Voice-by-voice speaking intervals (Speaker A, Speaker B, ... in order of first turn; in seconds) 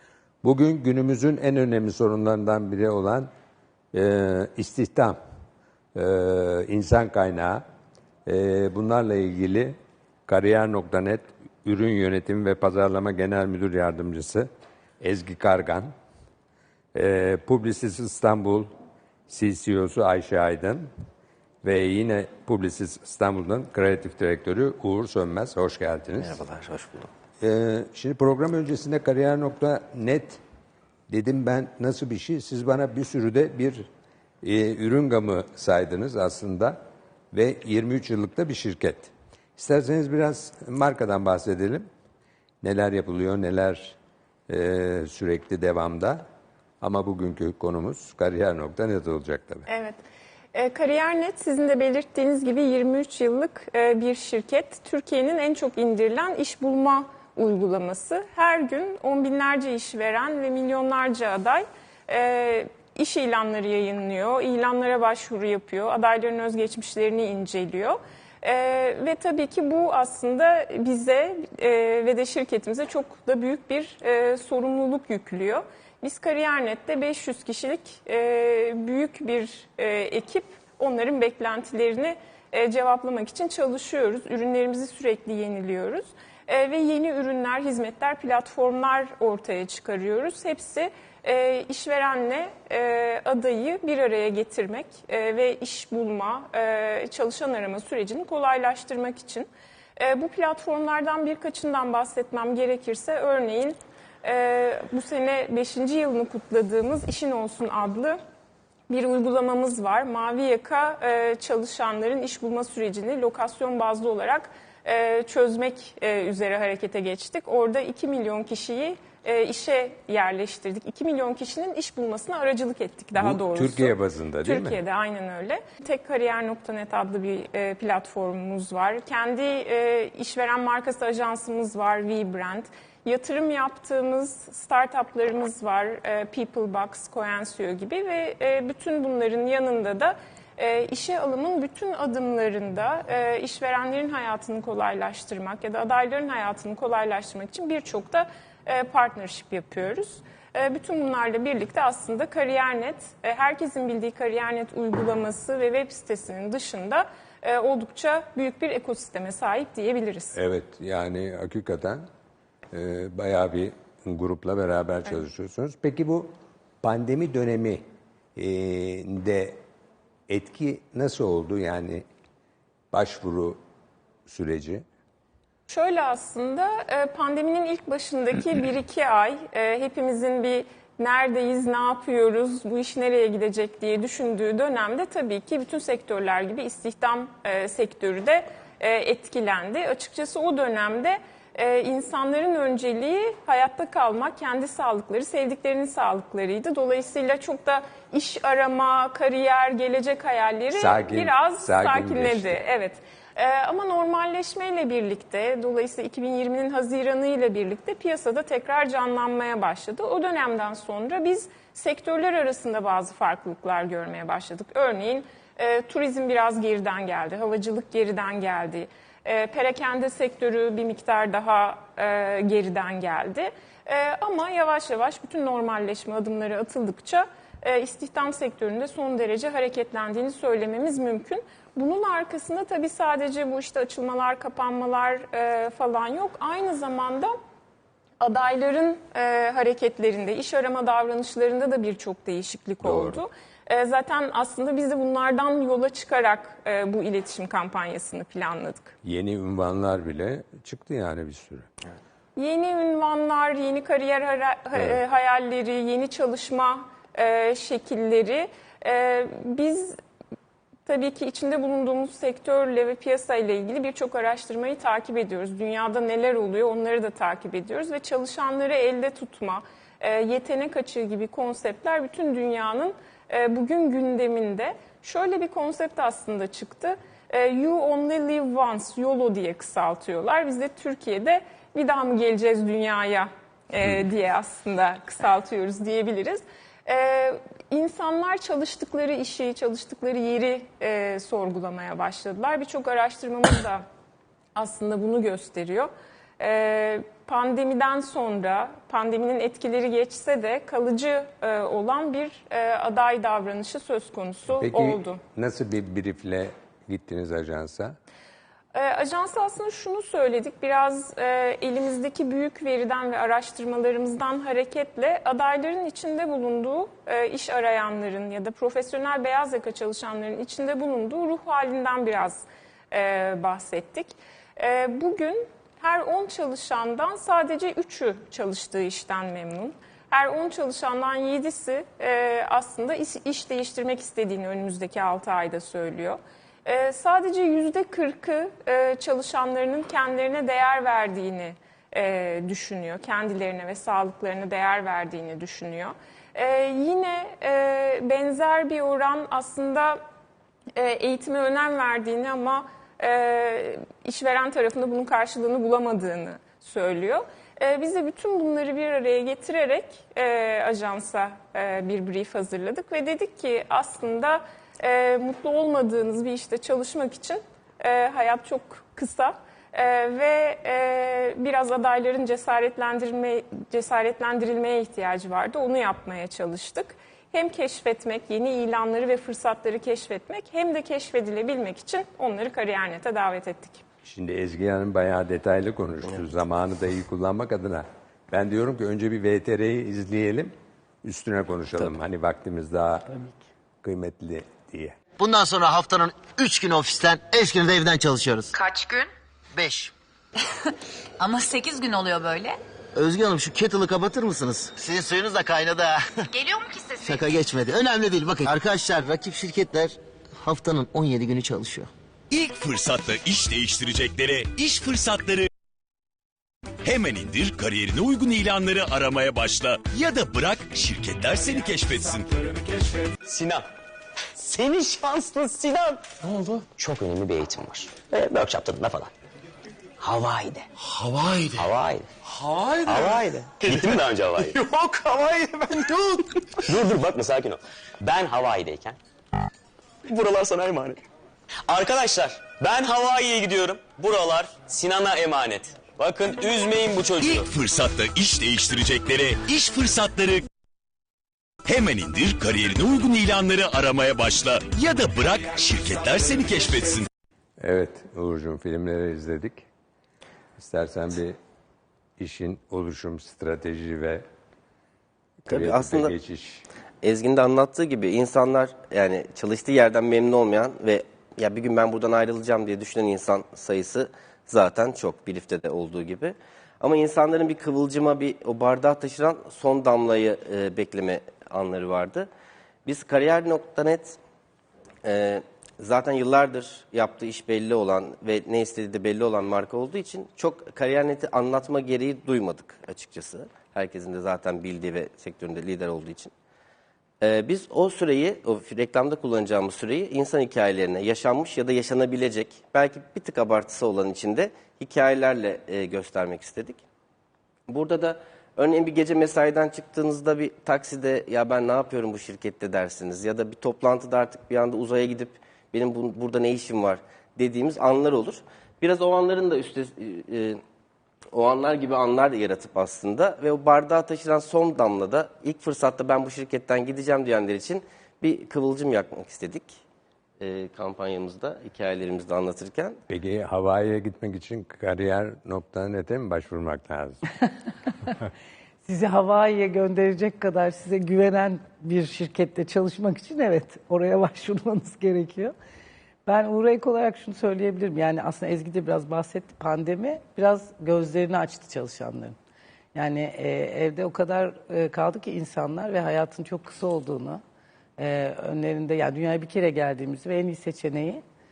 Speaker A: 0.4-3.3, 3.9-5.2, 5.9-7.6, 8.2-14.5, 15.0-15.9, 16.9-18.7, 19.3-20.9, 21.6-26.4, 27.4-30.4, 31.1-33.9, 34.4-36.8, 37.3-41.9, 42.6-44.0, 44.5-46.2, 46.8-49.7, 123.1-124.8, 160.3-162.1, 162.7-167.8, 168.3-169.6, 170.3-172.0, 172.9-173.6, 174.3-174.8, 200.7-202.6, 242.8-243.2, 249.0-251.7, 254.8-255.0, 304.6-308.0, 384.0-393.1, 393.8-395.0, 457.6-459.6, 460.6-461.4, 462.2-464.2, 465.4-466.6, 533.1-537.2
Speaker B: 26.2-27.1, 465.4-466.1, 467.0-482.3, 482.9-484.2, 485.0-496.3, 497.2-506.8, 507.7-520.6, 521.3-529.8, 530.4-533.0
Speaker C: 49.7-50.0, 50.5-108.2, 108.9-160.3, 175.7-237.3, 238.2-248.9, 252.3-259.9, 260.9-293.8, 294.5-305.2, 308.7-350.0, 350.8-383.8
Speaker D: 395.2-398.5, 399.6-399.9, 402.9-406.0, 407.0-411.9
Speaker E: 398.5-399.1, 401.2-402.6, 406.3-407.2
Speaker F: 412.3-415.5, 416.8-422.5, 447.1-450.4, 451.6-457.1
Speaker G: 423.2-423.6, 424.4-426.0, 426.8-429.1, 430.0-430.6, 431.7-432.1, 432.9-434.6, 436.7-439.0, 440.1-441.0, 441.7-447.4
Speaker H: 538.8-545.5, 546.2-552.3, 552.9-557.4, 558.0-561.2